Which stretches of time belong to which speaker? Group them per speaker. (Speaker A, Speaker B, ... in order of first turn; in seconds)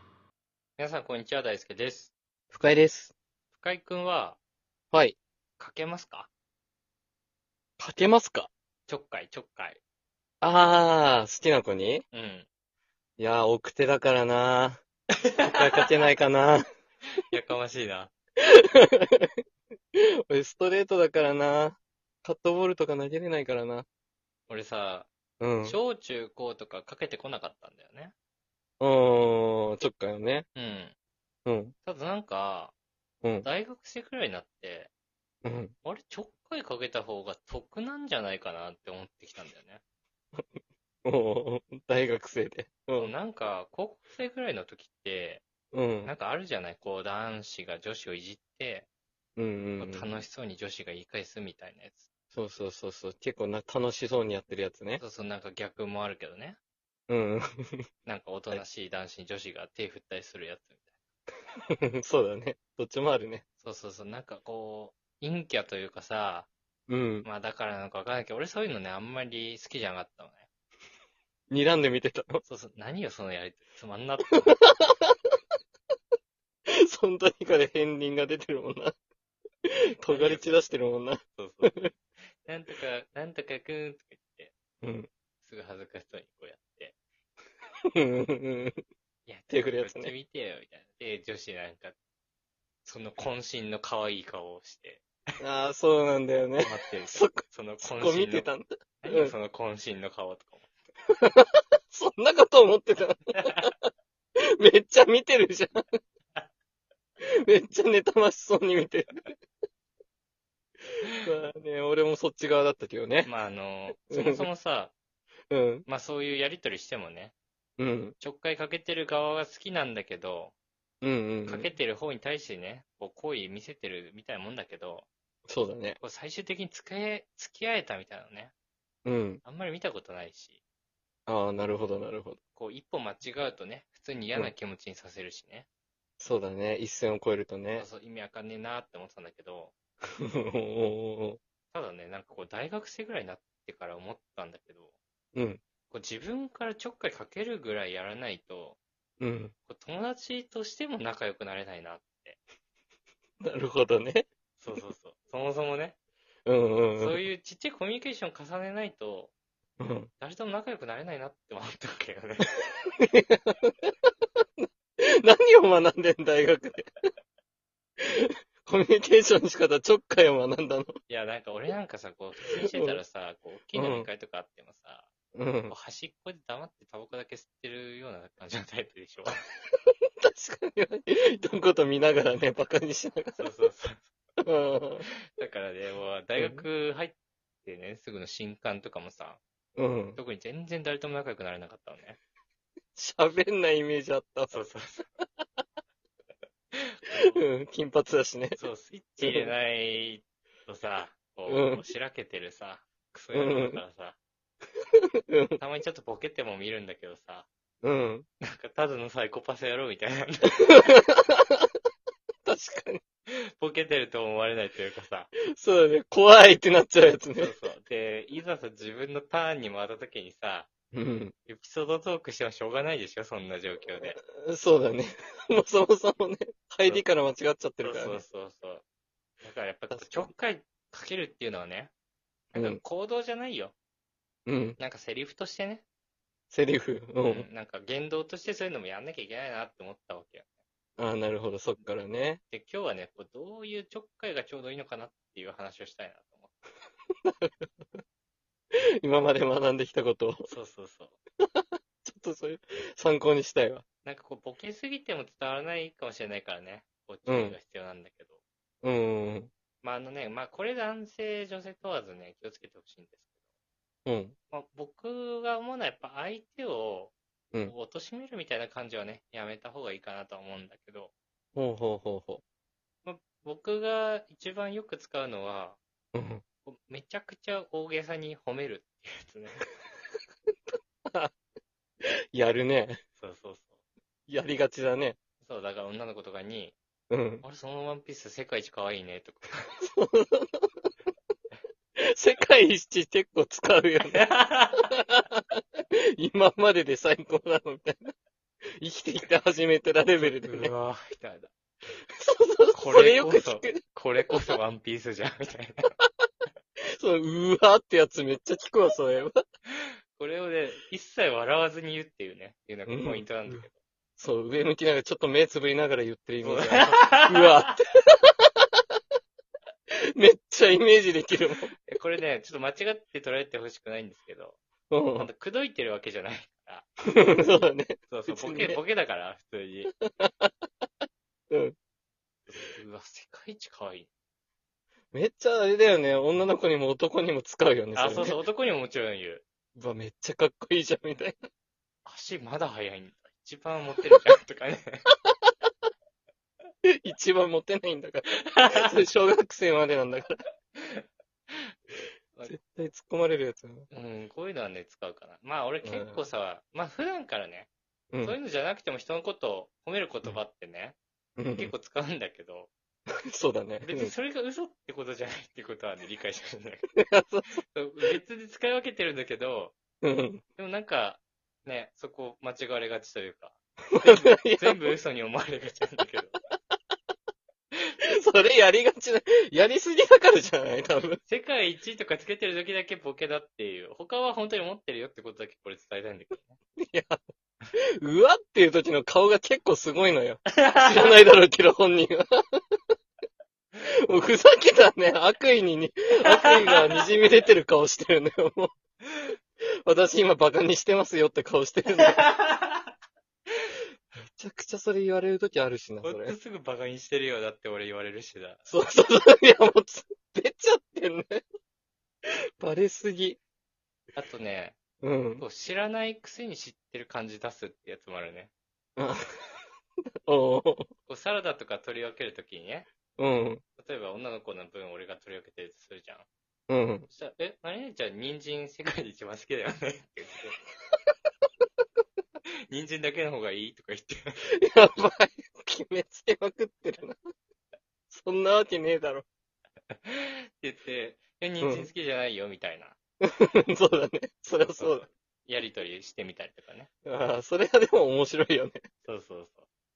Speaker A: 0.8-2.1, 3.5-4.4, 5.6-6.3, 8.9-9.8, 12.1-12.5, 15.2-15.9, 17.3-18.1, 24.5-25.1, 25.6-28.1, 30.6-30.9, 31.9-32.7, 33.4-34.9, 35.8-39.8, 43.0-45.4, 46.0-48.9, 49.8-52.1, 55.0-56.6, 58.0-60.8, 63.6-66.5, 67.2-70.5, 72.4-74.6, 80.1-80.6, 81.4-81.9, 82.4-84.5, 85.4-87.0, 89.3-92.0, 92.8-95.0, 96.6-98.5, 99.0-100.7, 103.4-103.7, 113.2-114.9, 115.9-117.3, 118.2-120.5, 121.5-125.1, 126.0-128.5, 129.4-130.6, 132.6-135.7, 137.8-139.7, 141.7-144.9, 145.9-148.8, 149.7-152.4, 154.6-156.0, 157.0-159.3, 160.2-162.6, 171.1-175.1, 175.7-179.4, 183.4-184.1, 185.3-189.4, 190.2-192.2, 194.5-195.1, 196.7-197.4, 198.6-204.2, 205.6-207.5, 208.4-210.9, 213.6-215.3, 217.3-220.7, 221.5-224.2, 227.8-228.8, 229.4-231.9, 232.5-233.8, 234.8-235.8, 237.2-240.5, 242.5-246.5, 250.5-251.2, 254.0-258.4, 259.8-263.3, 264.5-267.1, 267.7-271.1, 273.0-275.8, 276.6-279.7, 283.2-283.8, 285.4-286.8, 287.4-289.8, 294.1-294.9, 300.2-301.5, 302.7-306.0, 309.7-313.8, 316.4-317.8, 321.9-324.6, 325.1-329.9, 332.5-334.1, 337.9-339.4, 342.1-345.1, 348.5-348.8, 350.8-351.7, 353.9-357.7, 358.2-361.0, 361.6-362.7, 363.8-366.9, 367.7-369.8, 370.6-376.4, 381.2-386.6, 390.5-391.1, 396.3-397.0, 402.0-402.9, 406.0-408.7, 414.1-414.8, 415.4-418.5, 421.1-422.9, 423.8-426.3, 427.1-430.6, 432.7-434.4, 439.9-443.0, 444.6-446.9, 449.0-449.7
Speaker B: 2.5-3.1, 4.9-5.2, 7.8-8.5, 10.4-12.0, 13.2-14.8, 15.4-16.6, 18.4-19.3, 20.0-23.9, 25.4-25.8, 28.8-30.5, 31.5-31.8, 35.5-35.7, 41.0-43.1, 45.7-46.1, 49.4-50.2, 52.3-55.0, 57.1-57.4, 62.0-63.4, 66.9-67.3, 71.5-72.4, 74.4-75.2, 76.9-79.0, 79.7-81.9, 84.8-85.1, 88.0-88.8, 89.5-90.1, 95.4-99.3, 101.2-103.9, 104.6-105.9, 107.4-109.2, 111.2-113.3, 113.9-114.5, 115.5-115.9, 117.8-118.2, 121.0-121.7, 125.5-126.0, 129.1-129.4, 131.3-132.4, 136.2-137.9, 140.3-141.4, 145.3-145.6, 149.2-149.5, 153.4-154.3, 156.5-157.2, 159.8-160.1, 162.6-163.9, 164.6-166.9, 168.0-170.9, 172.7-173.0, 173.7-174.1, 175.4-175.7, 180.2-183.5, 184.4-185.1, 186.4-186.7, 189.8-190.2, 193.0-194.6, 197.3-198.6, 199.2-199.5, 201.5-201.8, 203.3-203.8, 205.3-205.6, 207.8-208.3, 210.5-211.7, 212.4-213.0, 215.5-217.5, 220.9-221.3, 224.2-228.2, 229.9-230.3, 232.5-232.8, 234.5-234.8, 236.5-237.5, 241.0-242.4, 247.2-248.0, 249.0-250.5, 251.5-253.8, 257.3-257.6, 258.8-259.5, 264.1-264.4, 271.6-272.4, 276.1-276.4, 280.7-281.3, 282.3-283.0, 284.3-285.2, 287.1-287.4, 289.8-290.9, 292.0-294.2, 294.8-295.4, 296.2-298.1, 298.8-300.7, 302.2-303.8, 304.3-304.6, 307.0-309.4, 312.9-313.6, 314.2-318.7, 320.1-321.7, 324.9-325.3, 327.1-328.8, 330.2-330.6, 331.5-331.8, 335.1-338.4, 339.8-341.5, 347.0-350.4, 352.5-353.9, 355.8-356.2, 358.1-358.4, 361.4-361.7, 363.3-364.1, 367.0-367.6, 370.0-370.4, 373.9-374.9, 378.2-381.2, 386.8-387.2, 388.0-392.6, 394.1-398.7, 399.9-402.3, 404.4-406.4, 408.7-411.4, 412.3-413.4, 415.0-415.5, 420.3-420.9, 423.2-423.6, 426.7-427.1, 434.6-437.2, 438.1-439.2, 441.6-441.9, 443.2-445.1, 447.1-448.9